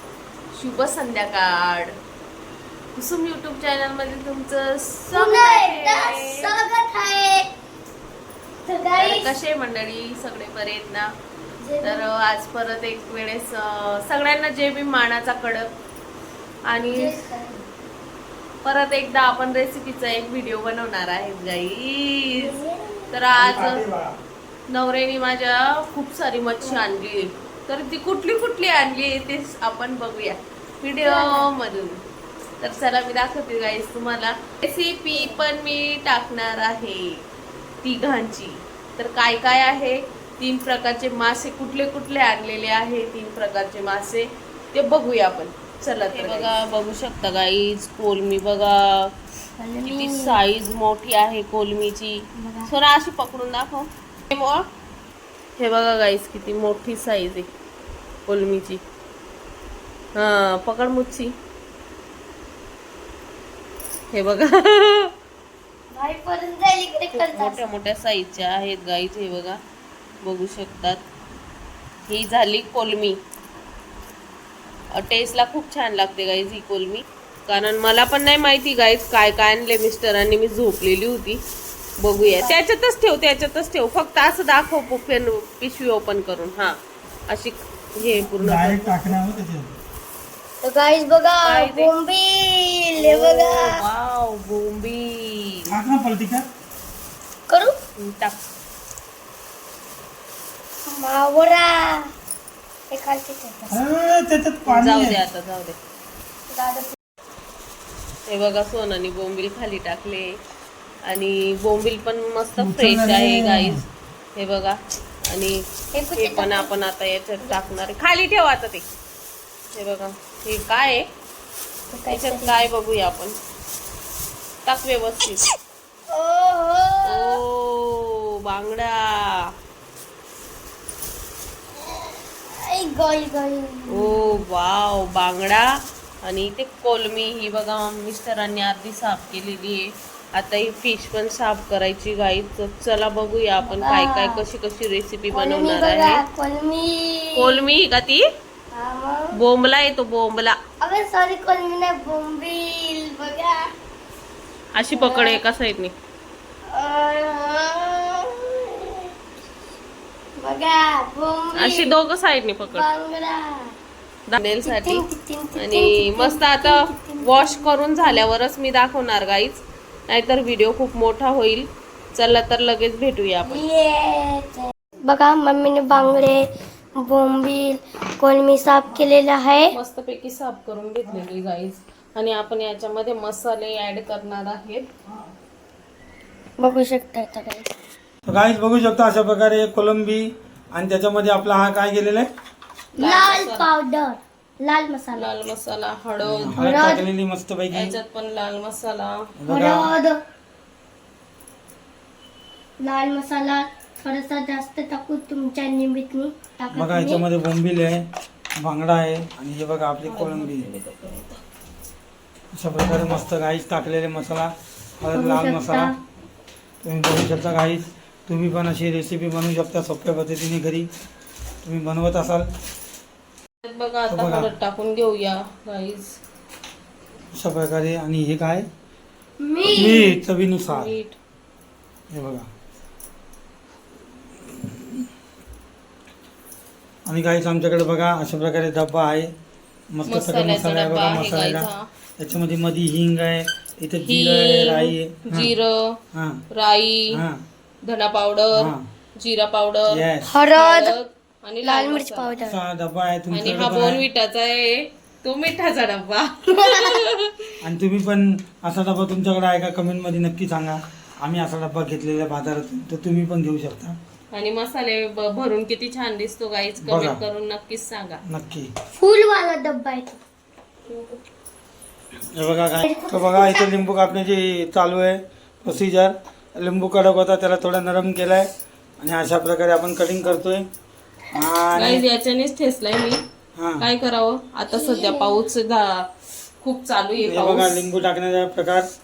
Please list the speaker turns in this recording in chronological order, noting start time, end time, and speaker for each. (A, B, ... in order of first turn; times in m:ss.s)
0:00.5-0:01.9 A
0:03.0-0:06.5 A
0:05.1-0:07.5 B
0:08.6-0:09.3 B
0:09.0-0:11.1 A
0:11.6-0:12.1 B
0:11.8-0:15.7 A
0:16.7-0:17.2 A
0:16.8-0:17.6 B
0:18.6-0:22.5 A
0:22.3-0:23.1 B
0:23.1-0:23.8 A
0:23.3-0:24.2 C
0:24.7-0:32.0 A
0:26.6-0:26.8 B
0:31.0-0:31.5 B
0:32.6-0:37.2 A
0:35.1-0:35.4 B
0:37.8-0:49.1 A
0:46.1-0:46.5 B
0:49.6-0:50.4 B
0:49.8-0:54.6 A
0:52.4-0:52.7 B
0:55.6-0:57.5 A
0:58.2-0:58.8 A
1:00.2-1:01.3 A
1:04.1-1:05.1 A
1:05.9-1:07.6 B
1:07.1-1:09.6 A
1:10.2-1:11.0 A
1:12.1-1:13.2 A
1:14.9-1:21.4 A
1:22.0-1:26.8 A
1:22.1-1:22.6 B
1:27.3-1:29.2 A
1:28.3-1:29.7 C
1:30.6-1:33.8 B
1:31.4-1:31.9 A
1:33.0-1:35.7 A
1:35.7-1:36.4 C
1:37.5-1:37.7 B
1:38.0-1:38.4 A
1:40.9-1:42.1 B
1:42.9-1:43.8 B
1:43.7-1:45.2 C
1:44.6-1:45.8 A
1:46.5-1:46.9 B
1:48.3-1:50.3 A
1:51.0-1:53.8 A
1:52.6-1:53.8 C
1:54.3-1:54.8 A
1:55.3-1:55.6 A
1:55.9-1:56.8 B
1:56.1-1:58.8 A
1:59.7-2:01.0 A
2:01.9-2:02.6 B
2:02.1-2:03.3 A
2:04.6-2:05.4 A
2:06.1-2:07.4 B
2:07.0-2:09.5 A
2:11.8-2:14.4 B
2:13.9-2:15.7 A
2:16.2-2:26.2 A
2:23.6-2:24.4 B
2:25.3-2:27.6 B
2:27.4-2:28.2 A
2:28.7-2:29.3 B
2:29.3-2:30.5 A
2:30.8-2:33.7 B
2:34.7-2:35.9 A
2:34.9-2:35.4 B
2:36.7-2:39.1 B
2:40.4-2:41.9 B
2:41.5-2:42.8 A
2:42.6-2:43.7 B
2:44.3-2:53.6 A
2:44.6-2:48.2 B
2:53.4-2:59.7 B
2:59.7-3:04.9 A
3:06.6-3:07.6 B
3:08.2-3:12.3 C
3:13.0-3:15.3 B
3:13.0-3:13.7 A
3:15.1-3:17.0 A
3:16.2-3:18.0 C
3:16.6-3:17.0 B
3:17.7-3:19.3 A
3:19.4-3:19.9 C
3:19.5-3:20.2 B
3:22.8-3:27.2 B
3:26.7-3:28.0 C
3:28.6-3:30.7 C
3:30.0-3:31.4 A
3:32.5-3:34.5 C
3:35.0-3:35.9 C
3:35.1-3:35.9 B
3:36.8-3:40.9 C
3:41.6-3:42.5 C
3:43.6-3:46.2 A
3:44.1-3:44.5 C
3:47.4-3:48.7 C
3:49.4-3:50.2 B
3:49.6-3:50.9 C
3:50.6-3:51.2 A
3:52.1-3:52.5 C
3:54.4-3:55.0 C
3:57.0-3:59.3 C
3:59.9-4:05.5 C
4:00.0-4:01.9 A
4:04.0-4:06.0 A
4:06.1-4:06.4 C
4:06.5-4:07.2 A
4:07.1-4:07.4 C
4:07.8-4:12.3 A
4:08.5-4:08.8 C
4:09.9-4:10.4 C
4:10.2-4:11.0 B
4:11.6-4:12.6 B
4:12.4-4:14.0 C
4:13.3-4:17.5 A
4:17.6-4:24.0 C
4:24.3-4:28.2 A
4:26.8-4:27.2 C
4:28.3-4:28.7 C
4:28.9-4:30.2 B
4:32.3-4:40.6 C
4:32.8-4:33.7 B
4:41.3-4:42.0 C
4:41.7-4:43.2 A
4:43.6-4:43.8 C
4:43.8-4:46.1 A
4:44.7-4:45.4 B
4:46.6-4:47.9 A
4:47.2-4:48.9 C